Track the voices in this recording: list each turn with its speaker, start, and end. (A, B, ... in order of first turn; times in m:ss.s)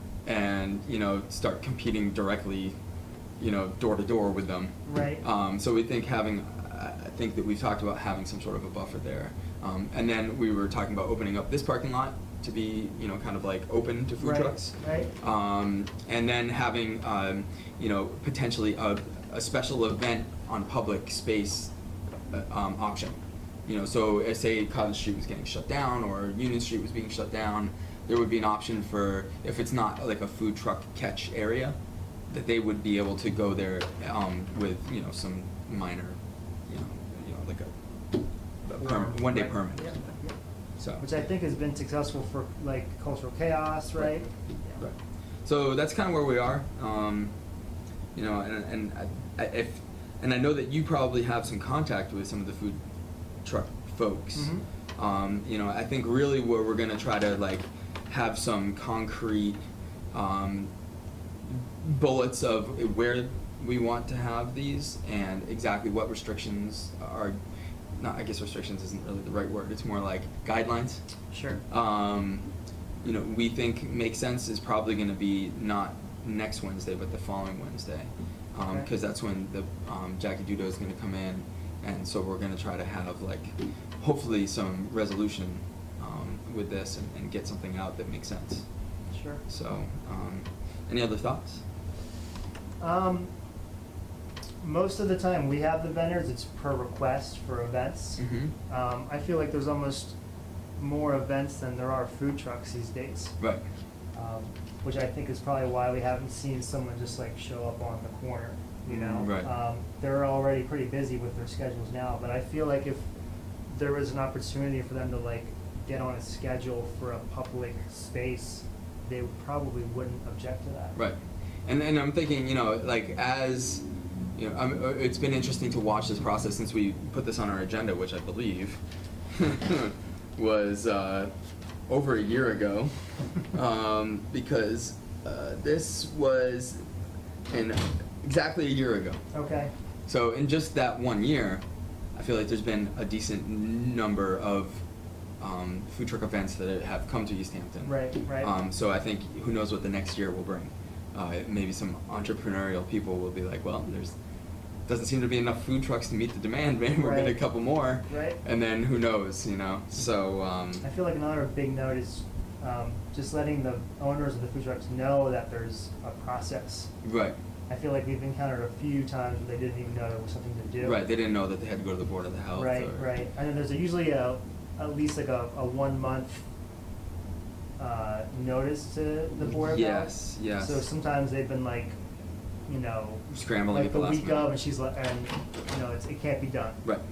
0:00.2-0:02.8 A
0:03.4-0:21.7 A
0:04.8-0:05.2 B
0:14.2-0:15.1 B
0:22.3-0:31.8 A
0:32.3-0:37.8 A
0:38.6-0:40.0 A
0:38.8-0:40.4 B
0:40.8-0:41.0 A
0:41.0-0:44.8 B
0:44.8-0:47.3 A
0:48.1-0:52.8 A
0:53.4-0:59.6 A
0:54.3-0:54.6 B
1:00.1-1:00.7 A
1:01.5-1:07.4 A
1:08.0-1:11.0 A
1:11.3-1:11.6 B
1:11.7-1:12.5 A
1:13.0-1:28.6 A
1:29.1-1:29.4 B
1:29.5-1:31.6 A
1:32.8-1:33.3 B
1:34.6-1:40.1 B
1:38.2-1:38.5 A
1:40.8-1:43.4 B
1:44.1-1:53.1 B
1:48.9-1:49.5 A
1:53.7-2:01.0 B
2:01.0-2:03.8 A
2:04.4-2:08.8 A
2:09.3-2:11.3 A
2:11.9-2:12.9 A
2:13.5-2:16.8 A
2:17.5-2:19.2 A
2:19.3-2:19.7 B
2:20.1-2:21.6 A
2:22.1-2:24.8 A
2:25.4-2:34.1 A
2:27.8-2:28.5 B
2:34.9-2:40.8 A
2:37.0-2:37.4 B
2:38.0-2:38.4 B
2:40.8-2:46.9 B
2:47.0-2:47.4 A
2:47.7-2:51.0 B
2:50.8-2:53.1 A
2:52.6-2:56.4 B
2:57.8-3:02.0 B
2:59.6-3:00.8 A
3:02.7-3:06.8 B
3:03.3-3:04.5 A